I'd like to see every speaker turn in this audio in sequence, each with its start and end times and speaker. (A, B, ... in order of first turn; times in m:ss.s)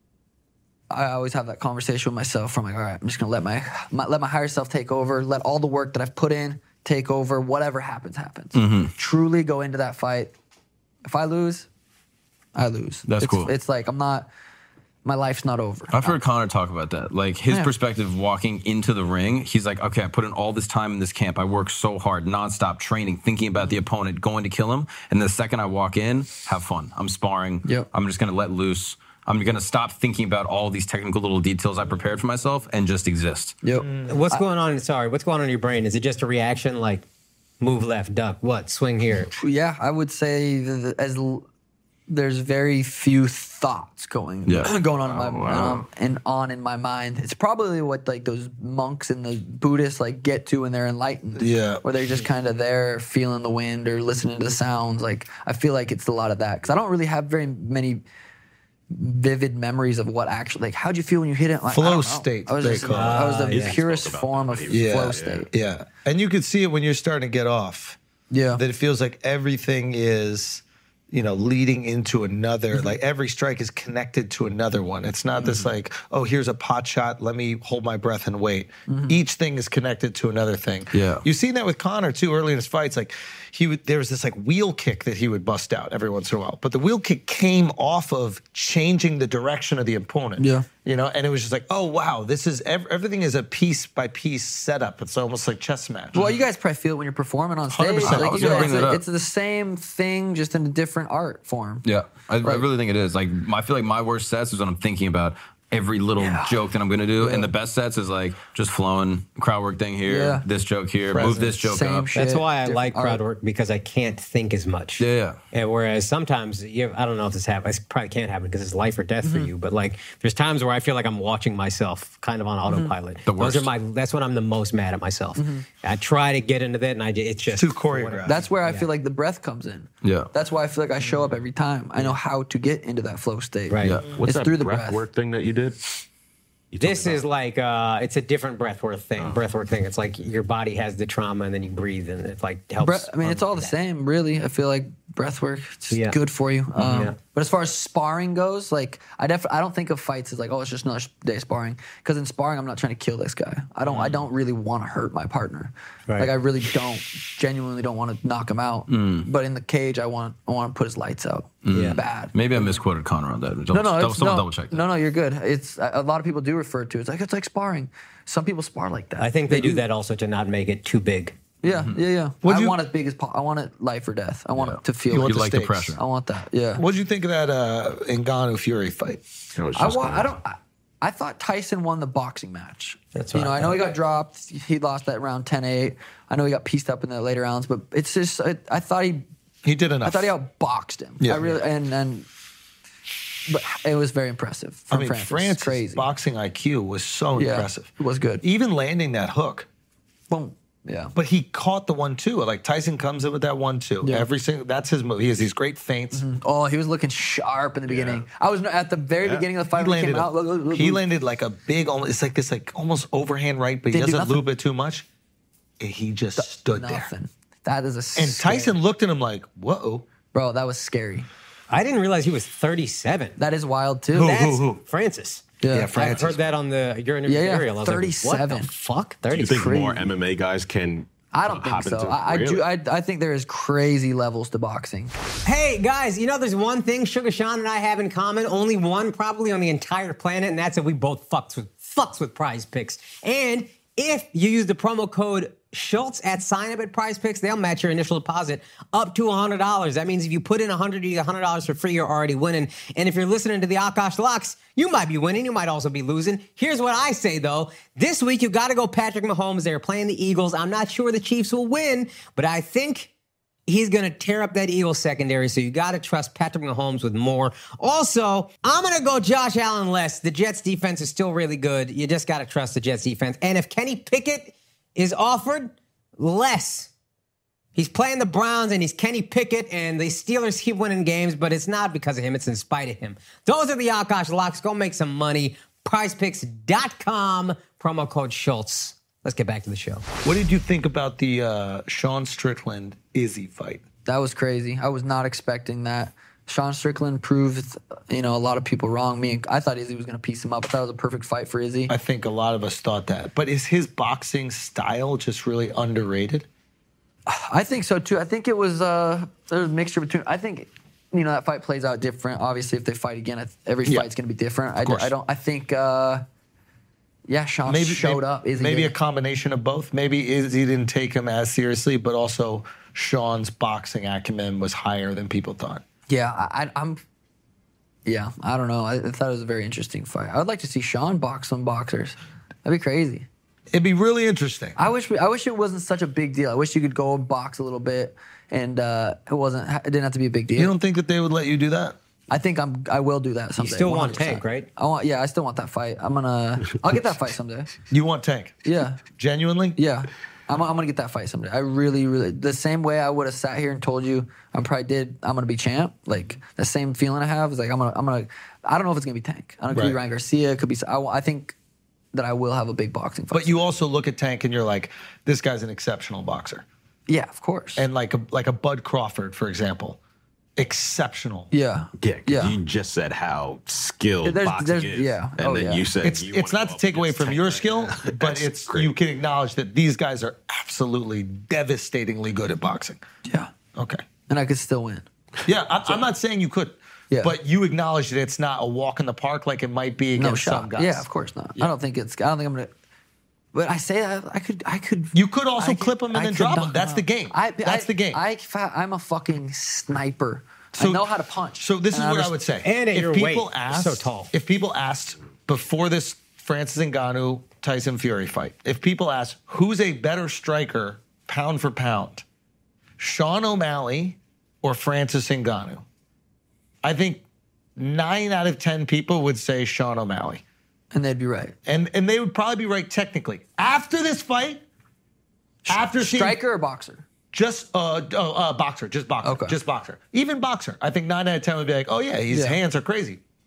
0:00.9-0:10.3 A
0:08.6-0:08.9 B
0:11.1-0:11.7 A
0:12.6-0:14.3 A
0:13.1-0:13.5 B
0:15.0-0:16.2 A
0:15.9-0:33.6 B
0:33.6-0:34.4 A
0:34.1-0:37.0 C
0:37.6-0:39.3 C
0:39.3-0:41.4 A
0:42.1-0:58.0 A
0:44.5-0:44.7 B
0:44.7-0:45.9 D
0:51.4-0:51.8 E
0:58.9-1:05.5 A
1:01.7-1:03.3 E
1:02.9-1:03.8 C
1:03.4-1:05.5 D
1:04.7-1:08.0 E
1:08.3-1:08.6 A
1:08.6-1:36.3 E
1:18.9-1:19.2 A
1:20.9-1:21.2 B
1:30.4-1:30.7 A
1:36.1-1:41.8 A
1:37.7-1:38.9 E
1:38.0-1:39.0 B
1:41.8-1:52.2 B
1:46.2-1:46.6 A
1:47.2-1:47.5 A
1:50.1-1:50.4 A
1:51.1-1:51.5 E
1:51.2-1:53.2 A
1:52.1-2:08.9 C
1:55.0-1:55.4 B
1:59.2-1:59.5 A
2:02.7-2:02.9 A
2:03.3-2:03.7 B
2:05.4-2:05.7 A
2:07.6-2:08.4 E
2:08.2-2:15.0 A
2:10.0-2:10.3 B
2:13.7-2:14.0 C
2:14.1-2:15.8 D
2:16.7-2:17.2 D
2:16.8-2:23.8 C
2:22.8-2:42.8 A
2:25.9-2:26.2 C
2:26.8-2:27.2 C
2:33.8-2:34.3 C
2:36.1-2:36.3 C
2:38.9-2:39.3 B
2:41.6-2:44.9 B
2:41.7-2:42.0 C
2:43.7-2:49.8 A
2:49.2-2:51.4 C
2:51.6-2:55.4 A
2:51.7-2:52.0 B
2:52.4-2:52.8 E
2:54.6-2:56.0 B
2:55.1-2:56.0 E
2:56.0-2:56.8 A
2:56.8-2:59.2 E
2:59.6-3:00.3 D
2:59.8-3:09.3 A
3:03.2-3:03.9 C
3:09.6-3:10.3 E
3:10.0-3:12.3 A
3:11.2-3:11.5 E
3:13.5-3:16.1 A
3:14.9-3:17.9 E
3:17.4-3:18.4 A
3:18.4-3:19.7 E
3:20.3-3:21.2 A
3:21.2-3:26.2 E
3:26.1-3:31.0 A
3:29.7-3:35.0 E
3:33.9-3:34.4 A
3:35.8-3:37.1 E
3:36.4-3:38.8 A
3:38.2-3:40.1 E
3:40.3-3:41.3 A
3:41.7-3:43.4 C
3:43.4-3:44.4 A
3:44.1-3:44.8 E
3:44.2-3:49.9 C
3:45.6-3:46.1 A
3:45.7-3:46.4 E
3:47.3-3:48.7 A
3:49.3-3:52.7 D
3:49.6-3:50.1 A
3:51.3-3:55.1 A
3:55.4-4:23.1 C
4:23.7-4:36.9 C
4:37.8-4:50.1 C
4:50.2-4:53.8 E
4:54.1-5:01.9 A
5:01.9-5:06.5 E
5:07.3-5:16.2 A
5:14.8-5:15.1 E
5:17.3-5:18.9 A
5:17.7-5:25.8 E
5:26.1-5:27.0 A
5:28.0-5:33.3 A
5:33.7-5:34.8 E
5:34.8-5:40.7 A
5:40.6-5:42.0 E
5:42.3-5:47.7 A
5:43.6-5:44.7 C
5:47.9-5:49.8 E
5:48.6-5:49.0 A
5:49.8-6:01.6 A
5:59.7-6:00.0 E
6:02.1-6:03.6 A
6:03.3-6:06.6 E
6:07.1-6:07.9 A
6:07.8-6:10.0 E
6:10.6-6:11.5 E
6:11.5-6:12.6 A
6:12.0-6:18.9 D
6:14.2-6:15.9 A
6:16.0-6:23.0 E
6:23.3-6:23.5 A
6:23.8-6:24.0 E
6:24.3-6:25.1 A
6:25.4-6:31.0 E
6:30.2-6:32.7 A
6:33.5-6:42.4 A
6:35.1-6:38.2 E
6:40.8-6:41.1 E
6:41.6-6:52.2 E
6:42.6-6:44.3 C
6:53.0-6:55.8 E
6:56.8-6:57.2 E
6:57.8-7:00.4 E
7:00.9-7:01.6 A
7:01.7-7:04.6 E
7:05.7-7:07.0 A
7:05.7-7:06.4 E
7:07.3-7:13.2 E
7:09.2-7:09.6 A
7:12.3-7:12.6 A